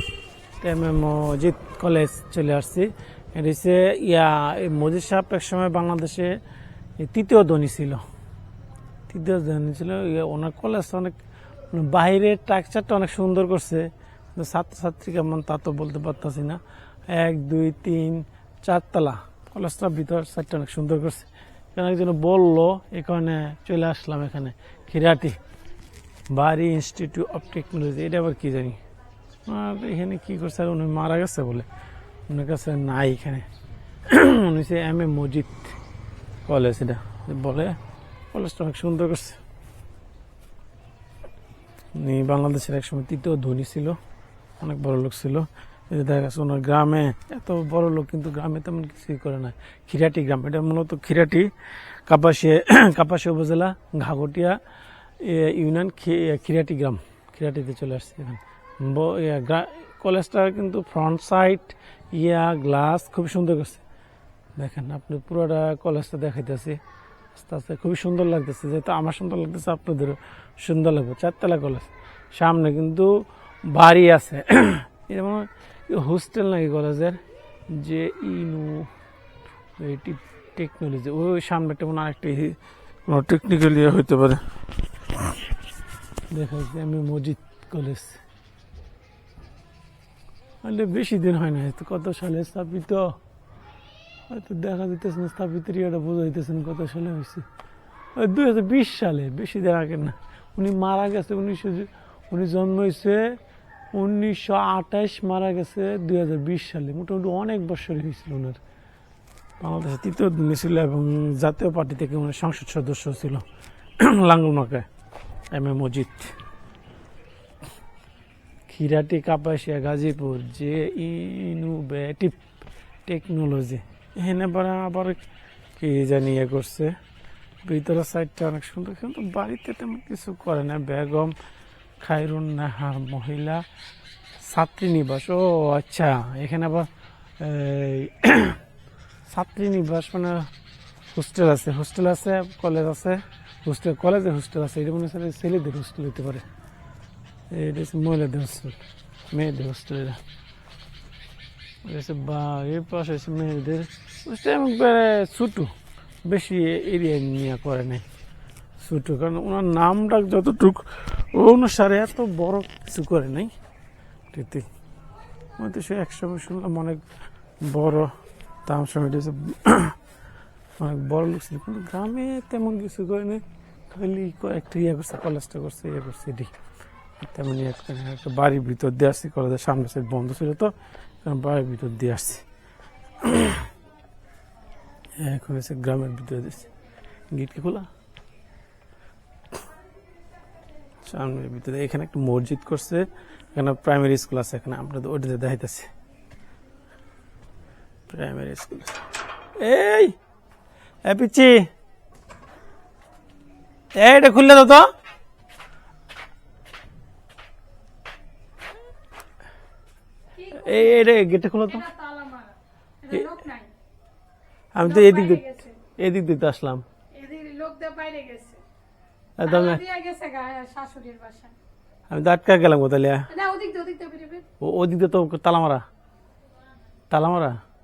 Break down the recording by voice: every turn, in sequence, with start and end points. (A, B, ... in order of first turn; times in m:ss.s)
0:00.6-0:06.4 A
0:07.0-0:08.0 A
0:09.1-0:11.1 A
0:11.7-0:25.4 A
0:26.3-0:28.8 A
0:29.4-0:31.7 A
0:32.3-0:33.4 A
0:34.1-0:35.7 A
0:36.5-0:37.8 A
0:38.3-0:39.4 A
0:42.0-0:44.0 A
0:44.6-0:51.5 A
0:52.1-0:54.6 A
0:55.2-1:03.8 A
1:04.6-1:06.8 A
1:07.3-1:13.1 A
1:13.6-1:17.2 A
1:17.7-1:18.9 A
1:19.8-1:22.6 A
1:23.1-1:24.4 A
1:26.3-1:28.2 A
1:30.6-1:33.1 A
1:34.3-1:37.4 A
1:38.2-1:43.3 A
1:43.9-1:48.6 A
1:49.6-1:53.4 A
1:54.0-1:54.8 A
1:55.5-1:56.3 A
1:58.7-2:02.4 A
2:03.0-2:05.2 A
2:05.8-2:06.9 A
2:07.6-2:11.3 A
2:12.0-2:13.6 A
2:14.4-2:16.9 A
2:17.4-2:18.6 A
2:19.3-2:20.5 A
2:21.1-2:26.4 A
2:27.5-2:28.8 A
2:29.3-2:30.2 A
2:31.8-2:35.7 A
2:36.2-2:38.0 A
2:38.8-2:43.5 A
2:44.3-2:44.7 A
2:45.6-2:47.0 A
2:47.6-2:48.1 A
2:48.6-2:50.0 A
2:50.8-2:56.5 A
2:57.2-3:02.4 A
3:03.2-3:03.7 A
3:05.2-3:06.7 A
3:07.3-3:07.9 A
3:11.0-3:15.9 A
3:18.1-3:19.0 A
3:19.6-3:20.1 A
3:21.0-3:21.6 A
3:23.9-3:24.8 A
3:30.3-3:31.1 B
3:30.5-3:31.8 A
3:31.7-3:33.7 B
3:34.7-3:36.8 A
3:34.8-3:35.8 B
3:37.1-3:38.6 B
3:39.4-3:39.8 A
3:39.4-3:41.5 B
3:42.1-3:43.3 A
3:43.3-3:44.4 B
3:44.6-3:45.8 A
3:47.1-3:47.6 A